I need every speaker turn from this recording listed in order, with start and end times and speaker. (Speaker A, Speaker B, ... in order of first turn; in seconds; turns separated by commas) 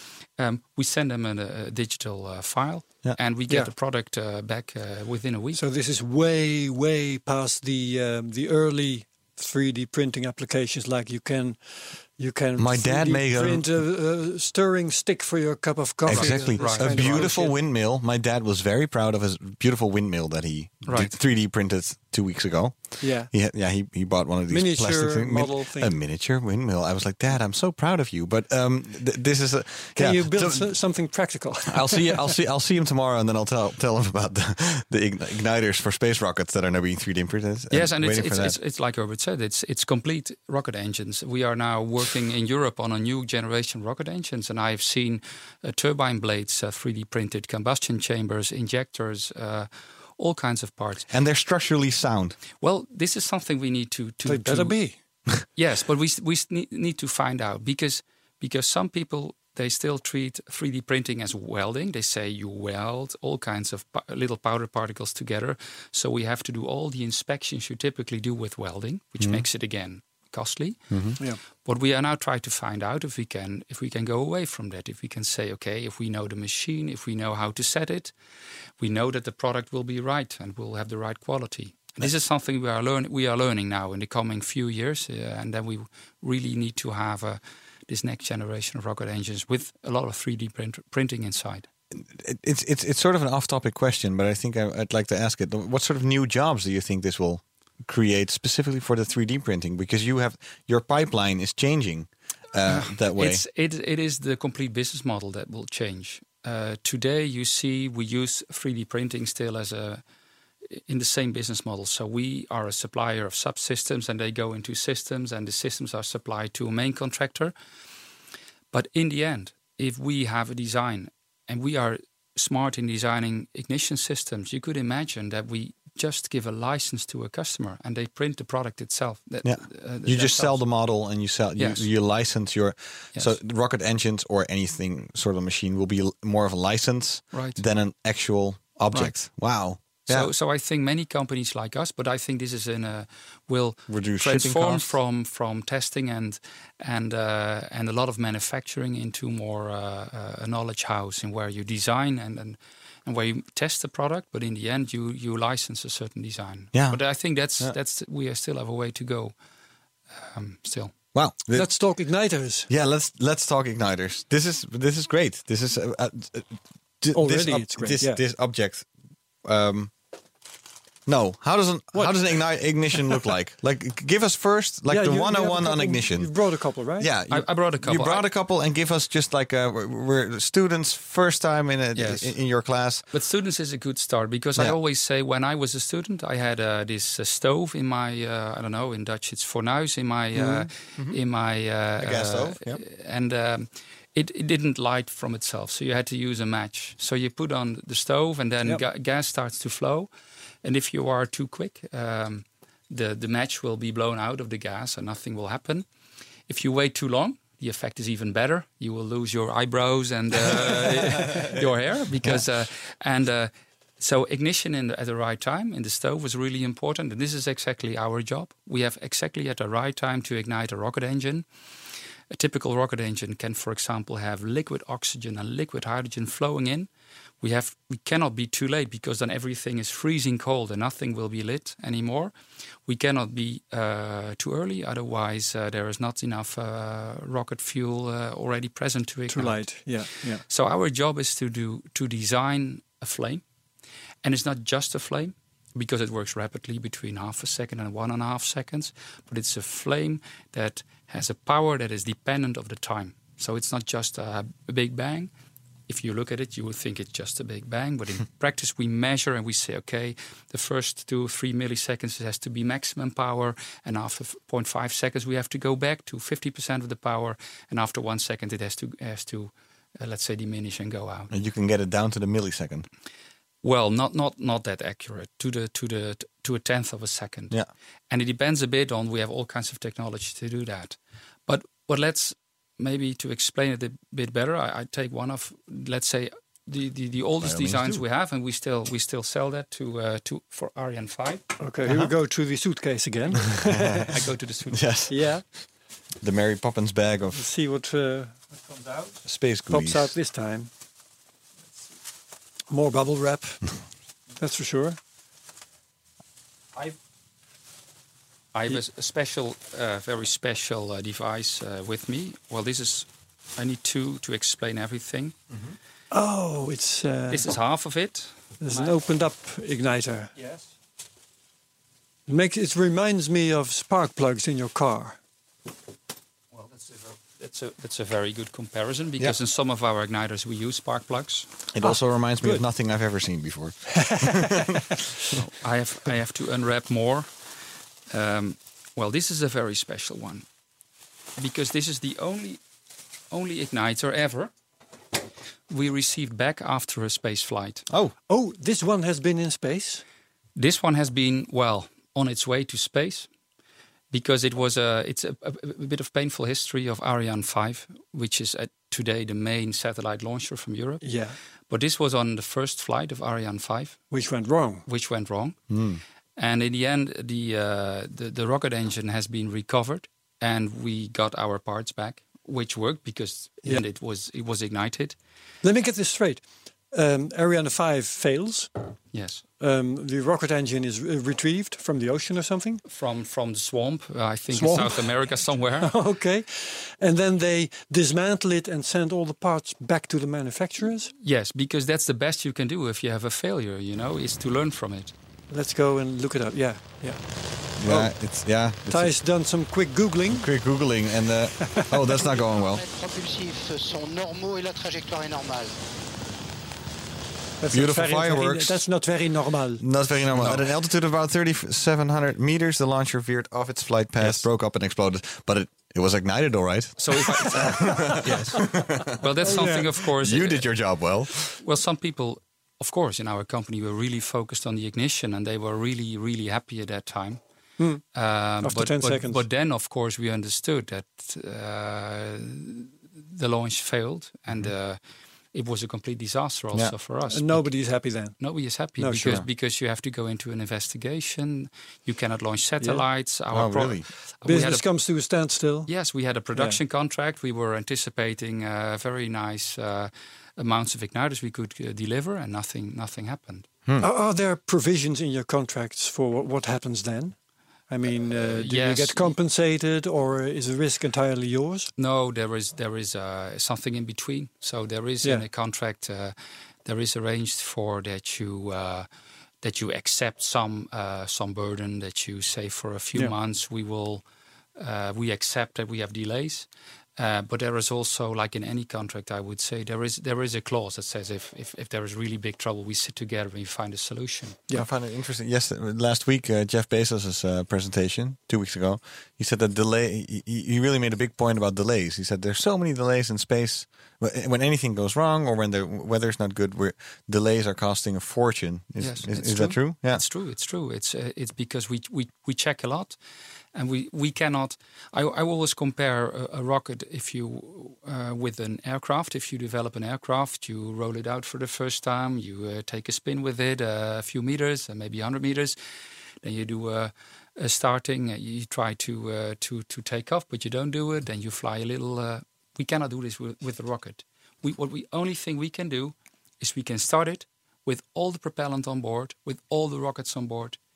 Speaker A: 0.4-5.6, Speaker B: 5.5-17.6, Speaker C: 12.6-13.7, Speaker C: 16.1-30.7, Speaker A: 16.1-17.3, Speaker A: 20.9-21.1, Speaker B: 23.0-23.3, Speaker B: 24.5-26.0, Speaker B: 30.0-32.4, Speaker C: 31.7-38.6, Speaker A: 37.7-51.1, Speaker C: 51.1-52.4, Speaker A: 52.6-54.8, Speaker B: 54.3-55.0, Speaker A: 55.6-70.9, Speaker C: 69.2-69.5, Speaker C: 70.9-71.2, Speaker A: 71.6-78.1, Speaker A: 78.8-91.7, Speaker C: 91.9-103.4, Speaker A: 102.7-110.0, Speaker A: 110.7-117.5, Speaker A: 118.7-130.6, Speaker C: 129.4-140.3, Speaker A: 131.6-131.9, Speaker A: 137.3-137.6, Speaker A: 140.1-159.3, Speaker C: 143.9-144.9, Speaker C: 156.7-157.0, Speaker A: 160.2-160.9, Speaker C: 161.2-161.7, Speaker B: 161.5-162.7, Speaker C: 162.7-168.9, Speaker B: 167.1-168.2, Speaker C: 169.4-169.9, Speaker C: 171.1-176.3, Speaker B: 171.9-172.2, Speaker B: 174.9-177.1, Speaker C: 177.0-183.1, Speaker A: 177.3-178.3, Speaker A: 182.0-182.3, Speaker A: 183.1-200.1, Speaker B: 190.3-190.7, Speaker C: 192.0-192.8, Speaker A: 200.6-205.9, Speaker A: 206.5-221.5, Speaker C: 210.5-211.6, Speaker A: 222.3-226.9, Speaker A: 227.4-232.3, Speaker A: 232.9-239.9, Speaker B: 239.3-240.4, Speaker A: 240.5-243.4, Speaker A: 244.2-255.3, Speaker A: 255.9-271.3, Speaker C: 271.3-272.9, Speaker A: 273.6-277.6, Speaker A: 278.1-291.4, Speaker C: 287.4-288.0, Speaker B: 291.6-294.1, Speaker C: 293.6-294.1, Speaker A: 294.1-294.9, Speaker C: 294.7-295.1, Speaker B: 295.1-295.4, Speaker C: 296.2-297.4, Speaker B: 297.3-299.1, Speaker C: 299.2-300.1, Speaker B: 299.7-300.7, Speaker B: 302.7-303.6, Speaker B: 304.4-305.0, Speaker A: 308.5-315.4, Speaker B: 316.1-317.5, Speaker A: 317.3-318.9, Speaker B: 318.6-320.3, Speaker A: 320.4-320.6, Speaker B: 322.3-325.2, Speaker A: 326.5-331.5, Speaker C: 331.7-335.4, Speaker B: 333.9-335.0, Speaker A: 335.3-337.3, Speaker A: 338.1-340.4, Speaker A: 341.4-342.6, Speaker A: 343.3-344.5, Speaker A: 345.7-347.9, Speaker B: 348.3-350.0, Speaker A: 350.6-353.3, Speaker A: 354.1-361.0, Speaker B: 361.0-361.4, Speaker A: 361.7-364.0, Speaker B: 364.1-364.9, Speaker A: 364.9-365.6, Speaker C: 365.7-366.0, Speaker A: 366.4-375.2, Speaker B: 375.6-378.7, Speaker A: 379.1-379.4, Speaker B: 379.6-382.8, Speaker A: 382.9-385.9, Speaker B: 384.5-385.1, Speaker B: 385.8-391.1, Speaker A: 391.2-395.1, Speaker B: 395.5-397.2, Speaker C: 397.8-399.1, Speaker B: 397.8-398.1, Speaker B: 398.9-400.5, Speaker C: 400.3-402.8, Speaker D: 402.2-405.8, Speaker B: 407.6-409.8, Speaker C: 407.7-408.8, Speaker C: 409.8-419.2, Speaker A: 410.4-410.6, Speaker A: 417.0-420.7, Speaker B: 419.4-419.9, Speaker C: 420.1-421.6, Speaker A: 421.6-427.4, Speaker A: 428.1-435.0, Speaker B: 428.6-429.4, Speaker A: 435.5-437.7, Speaker B: 437.3-438.4, Speaker A: 438.4-444.9, Speaker B: 439.0-439.4, Speaker C: 443.5-444.1, Speaker B: 444.4-445.9, Speaker A: 445.9-453.7, Speaker B: 454.0-457.4, Speaker B: 457.9-461.9, Speaker A: 458.1-459.3, Speaker A: 462.0-469.1, Speaker A: 469.6-474.2, Speaker A: 474.8-484.6, Speaker C: 484.7-500.2, Speaker A: 499.0-503.2, Speaker A: 503.7-515.8, Speaker A: 516.4-530.8